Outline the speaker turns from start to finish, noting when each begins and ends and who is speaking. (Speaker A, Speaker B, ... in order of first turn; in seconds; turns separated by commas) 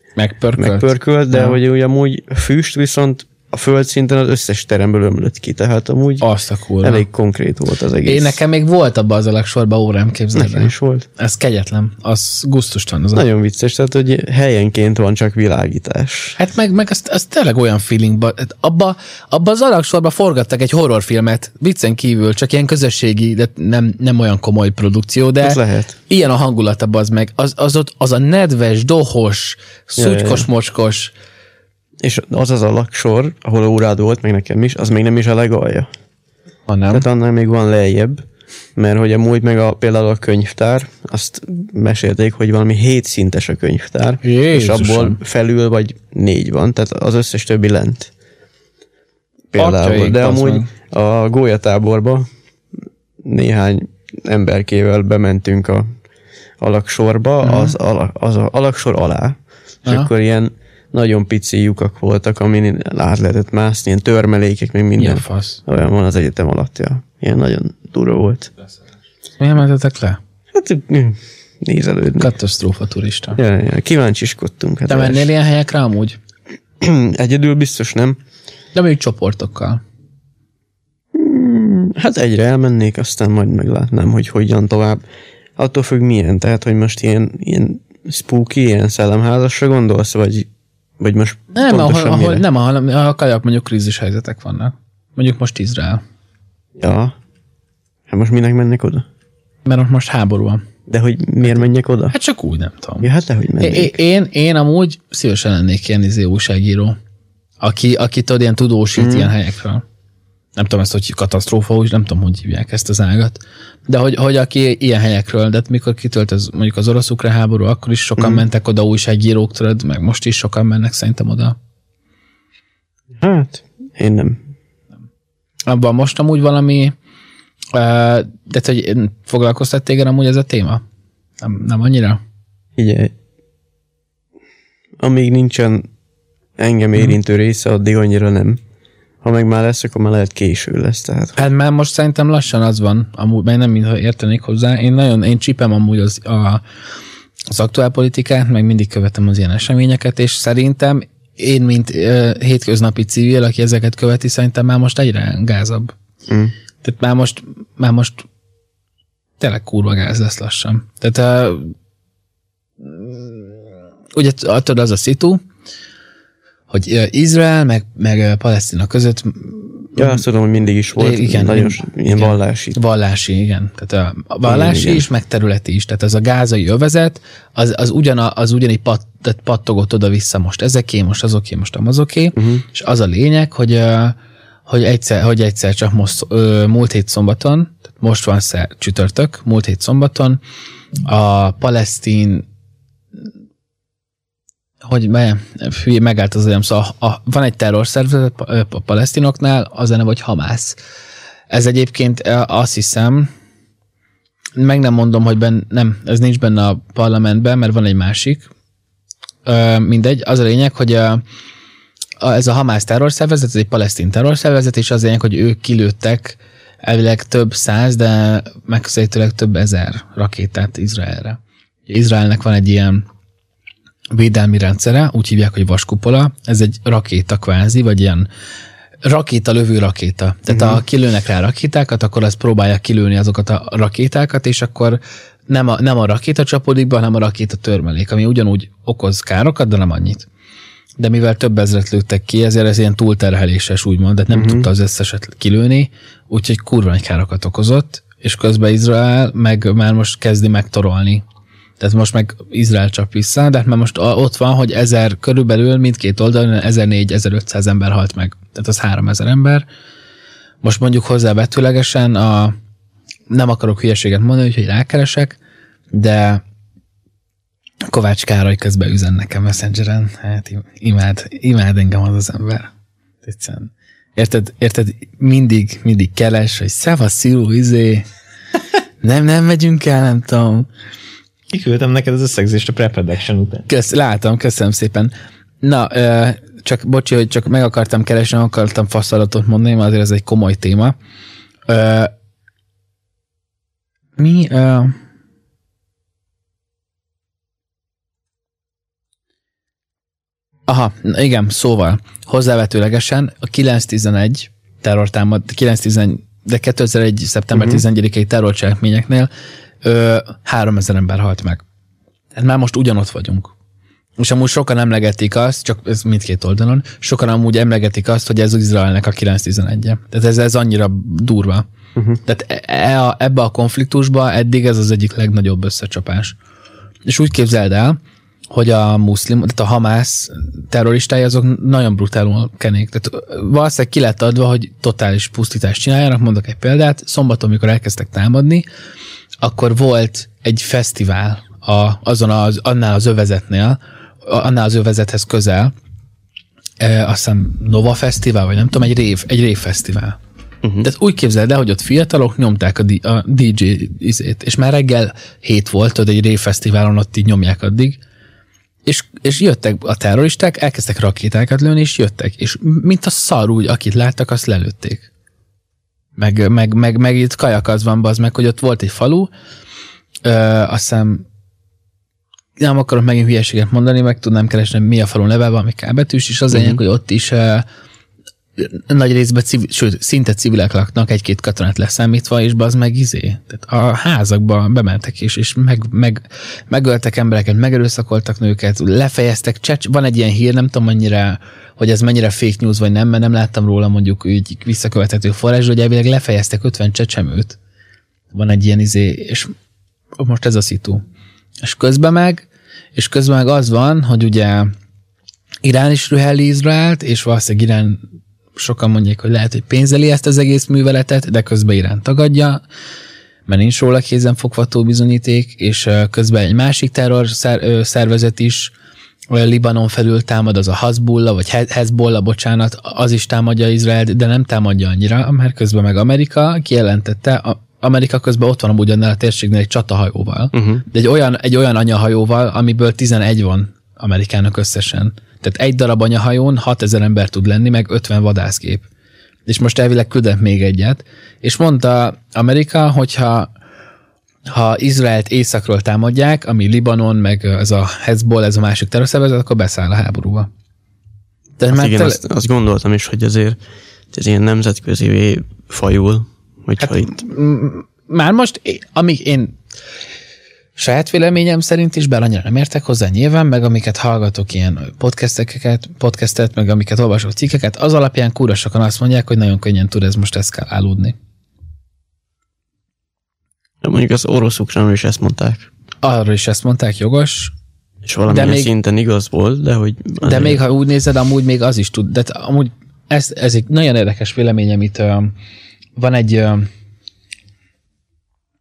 Speaker A: 0.2-1.6, Speaker B: 0.6-6.3, Speaker A: 6.2-7.1, Speaker B: 6.8-8.4, Speaker A: 8.1-13.2, Speaker B: 10.3-11.1, Speaker B: 13.1-16.4, Speaker A: 16.4-31.1, Speaker B: 25.4-26.0, Speaker B: 30.0-30.5, Speaker B: 32.0-35.9, Speaker A: 36.7-37.0, Speaker B: 36.9-38.2, Speaker B: 38.8-48.1, Speaker A: 44.2-45.2, Speaker B: 49.5-52.3, Speaker A: 49.6-50.7, Speaker B: 53.2-55.9, Speaker B: 56.6-68.5, Speaker A: 57.4-57.8, Speaker A: 65.0-65.6, Speaker A: 69.4-70.2, Speaker B: 70.5-72.3, Speaker A: 72.2-73.4, Speaker B: 73.3-75.3, Speaker A: 74.9-76.2, Speaker B: 76.8-78.2, Speaker A: 78.8-79.8, Speaker B: 81.1-85.0, Speaker B: 85.6-90.5, Speaker B: 91.0-92.4, Speaker A: 91.5-96.0, Speaker B: 96.8-97.2, Speaker B: 98.1-99.1, Speaker A: 99.7-100.7, Speaker B: 100.9-102.2, Speaker A: 101.4-103.1, Speaker B: 103.0-104.0, Speaker A: 103.6-107.0, Speaker A: 107.6-109.8, Speaker B: 109.0-109.3, Speaker A: 110.6-121.6, Speaker B: 123.2-124.4, Speaker A: 125.7-127.0, Speaker A: 127.7-130.8, Speaker A: 131.4-132.2, Speaker B: 132.8-133.1, Speaker B: 135.0-135.9, Speaker B: 136.6-138.6, Speaker B: 139.2-141.4, Speaker A: 141.4-146.6, Speaker A: 147.5-155.9, Speaker B: 156.3-156.5, Speaker A: 156.8-158.2, Speaker A: 159.4-161.7, Speaker A: 162.8-163.6, Speaker A: 164.1-165.4, Speaker A: 166.7-170.2, Speaker B: 170.0-172.8, Speaker A: 171.0-190.4, Speaker B: 174.4-175.1, Speaker B: 182.3-182.7, Speaker A: 191.1-192.4, Speaker A: 194.8-200.8, Speaker A: 201.5-203.3, Speaker A: 204.6-208.5, Speaker A: 209.4-211.2, Speaker A: 212.2-223.1, Speaker A: 224.1-228.3, Speaker A: 229.1-240.3, Speaker B: 230.5-230.8, Speaker A: 241.0-251.2, Speaker B: 244.3-244.7, Speaker A: 251.8-259.6, Speaker A: 260.6-262.6, Speaker A: 263.3-265.4, Speaker A: 265.9-266.4, Speaker A: 267.9-272.7, Speaker A: 273.2-278.0, Speaker A: 279.0-280.7, Speaker C: 281.5-283.7, Speaker A: 283.7-291.0, Speaker A: 291.7-292.1, Speaker A: 294.2-295.0, Speaker A: 300.7-309.3, Speaker B: 307.6-307.8, Speaker A: 309.8-311.6, Speaker A: 312.3-313.5, Speaker A: 314.2-321.7, Speaker A: 322.2-326.4, Speaker A: 327.1-328.0, Speaker A: 328.5-338.7, Speaker A: 339.4-345.7, Speaker A: 346.8-350.2, Speaker B: 350.6-350.9, Speaker A: 350.8-358.0, Speaker A: 358.9-365.1, Speaker A: 366.2-369.3, Speaker A: 370.2-371.2, Speaker A: 372.6-377.7, Speaker B: 376.5-376.8, Speaker A: 378.6-397.6, Speaker A: 398.3-399.5, Speaker A: 400.2-401.0, Speaker A: 401.6-404.7, Speaker A: 405.6-408.0, Speaker A: 408.6-412.6, Speaker A: 413.5-418.7, Speaker A: 419.3-438.9, Speaker B: 430.5-430.9, Speaker A: 439.5-443.5, Speaker A: 444.5-450.5, Speaker A: 451.6-452.2, Speaker B: 451.7-453.6, Speaker B: 454.1-457.2, Speaker A: 456.8-459.6, Speaker A: 460.8-471.2, Speaker B: 473.8-475.7, Speaker A: 476.0-477.5, Speaker B: 478.1-480.6, Speaker A: 478.3-478.7, Speaker A: 480.2-485.3, Speaker A: 486.0-486.7